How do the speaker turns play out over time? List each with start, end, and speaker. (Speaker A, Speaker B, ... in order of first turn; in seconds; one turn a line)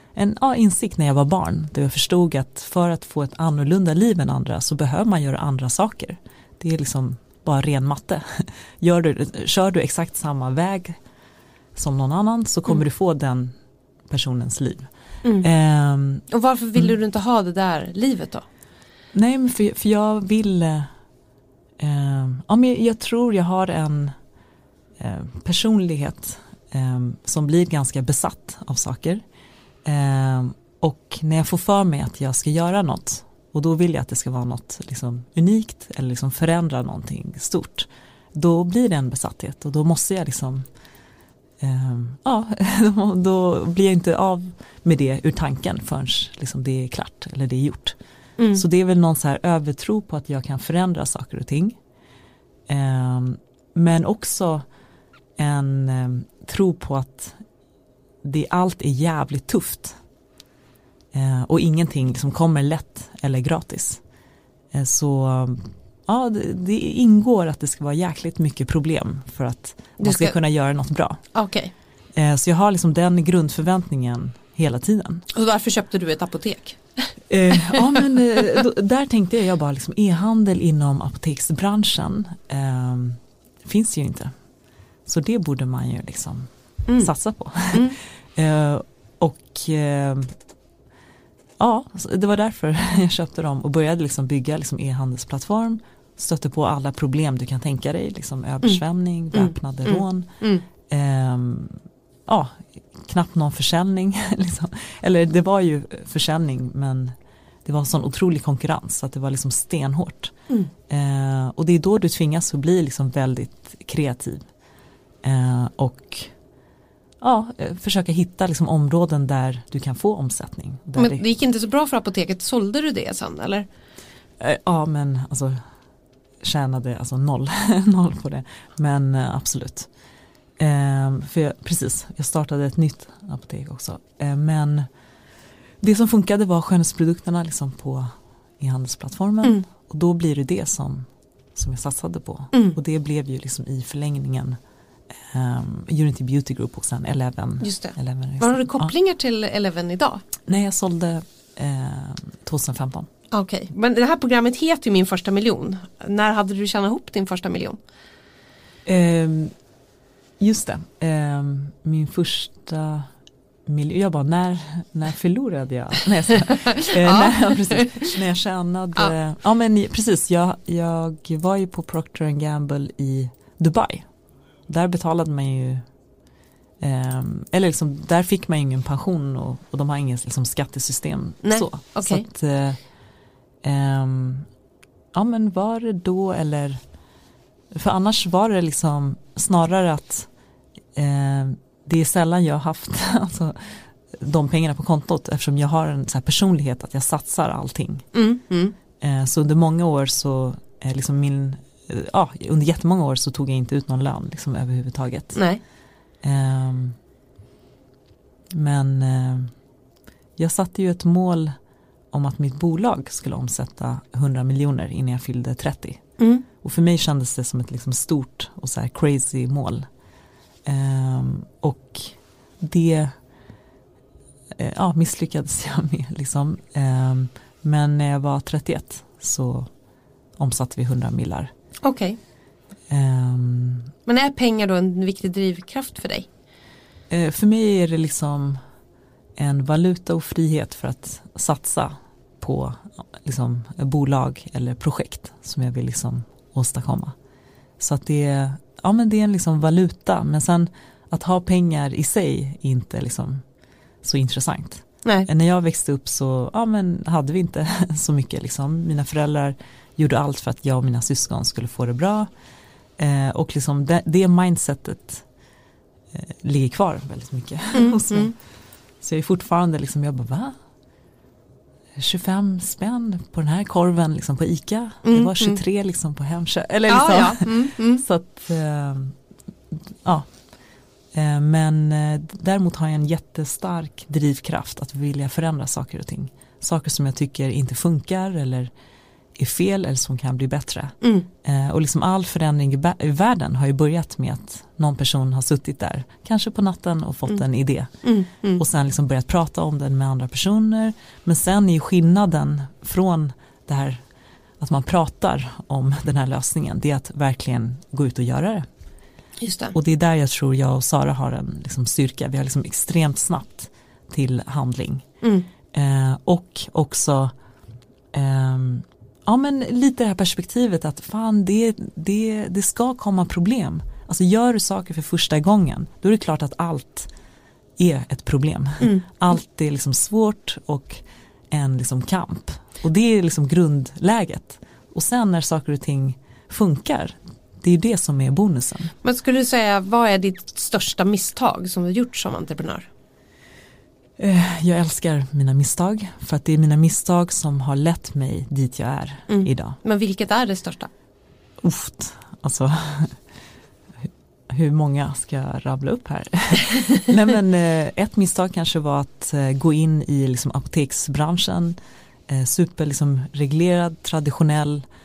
Speaker A: 0.1-11.0
Speaker A: 11.7-13.5
Speaker A: 14.1-14.9
Speaker A: 15.4-16.9
Speaker B: 16.3-18.4
Speaker A: 19.1-20.9
Speaker A: 21.8-24.1
Speaker A: 25.0-29.2
Speaker A: 29.8-40.6
Speaker A: 41.6-48.0
Speaker B: 48.4-48.6
Speaker A: 48.5-51.8
Speaker A: 52.7-54.6
Speaker A: 55.4-57.4
Speaker A: 58.2-60.0
Speaker A: 61.1-64.0
Speaker A: 64.7-71.2
Speaker B: 70.0-70.3
Speaker B: 71.3-71.7
Speaker A: 72.2-75.2
Speaker B: 75.3-77.8
Speaker A: 77.3-84.3
Speaker A: 85.0-90.3
Speaker B: 86.9-87.1
Speaker A: 91.6-100.3
Speaker B: 99.3-100.6
Speaker A: 100.9-110.3
Speaker A: 110.9-114.4
Speaker A: 115.2-116.3
Speaker A: 117.2-121.2
Speaker B: 121.0-123.7
Speaker A: 124.4-125.6
Speaker A: 126.4-129.9
Speaker A: 130.6-134.9
Speaker A: 135.8-144.6
Speaker A: 145.3-148.9
Speaker B: 147.6-150.2
Speaker A: 150.4-153.1
Speaker B: 153.3-157.8
Speaker A: 158.8-159.5
Speaker A: 160.4-163.1
Speaker A: 163.7-174.1
Speaker B: 166.5-168.1
Speaker A: 174.7-175.8
Speaker A: 176.8-182.8
Speaker B: 181.4-182.2
Speaker A: 183.6-184.5
Speaker A: 185.1-186.8
Speaker A: 187.7-190.3
Speaker A: 190.9-198.1
Speaker B: 198.1-198.7
Speaker A: 199.0-205.4
Speaker B: 205.3-205.6
Speaker A: 206.2-207.0
Speaker A: 208.5-209.5
Speaker A: 210.4-211.5
Speaker A: 212.1-216.0
Speaker B: 216.2-216.4
Speaker A: 216.6-219.9
Speaker A: 220.7-223.1
Speaker A: 224.6-229.7
Speaker A: 230.4-231.5
Speaker B: 231.8-232.2
Speaker A: 232.9-233.9
Speaker B: 234.1-236.3
Speaker A: 237.1-238.6
Speaker A: 239.4-247.1
Speaker A: 247.8-253.4
Speaker A: 254.0-262.3
Speaker A: 263.0-265.2
Speaker A: 266.1-268.3
Speaker B: 267.7-268.3
Speaker A: 269.0-270.6
Speaker A: 272.0-279.1
Speaker B: 275.0-275.6
Speaker B: 276.9-278.0
Speaker A: 279.7-280.3
Speaker A: 281.1-288.7
Speaker A: 289.4-297.9
Speaker B: 291.0-291.3
Speaker B: 298.0-298.6
Speaker A: 298.6-304.0
Speaker A: 304.6-308.7
Speaker B: 309.4-309.7
Speaker A: 309.7-315.1
Speaker B: 315.2-315.5
Speaker A: 315.7-317.3
Speaker A: 318.1-327.1
Speaker A: 327.8-338.9
Speaker B: 339.0-342.9
Speaker A: 344.2-349.8
Speaker B: 349.3-350.9
Speaker A: 351.6-353.2
Speaker A: 354.0-361.8
Speaker A: 362.3-364.8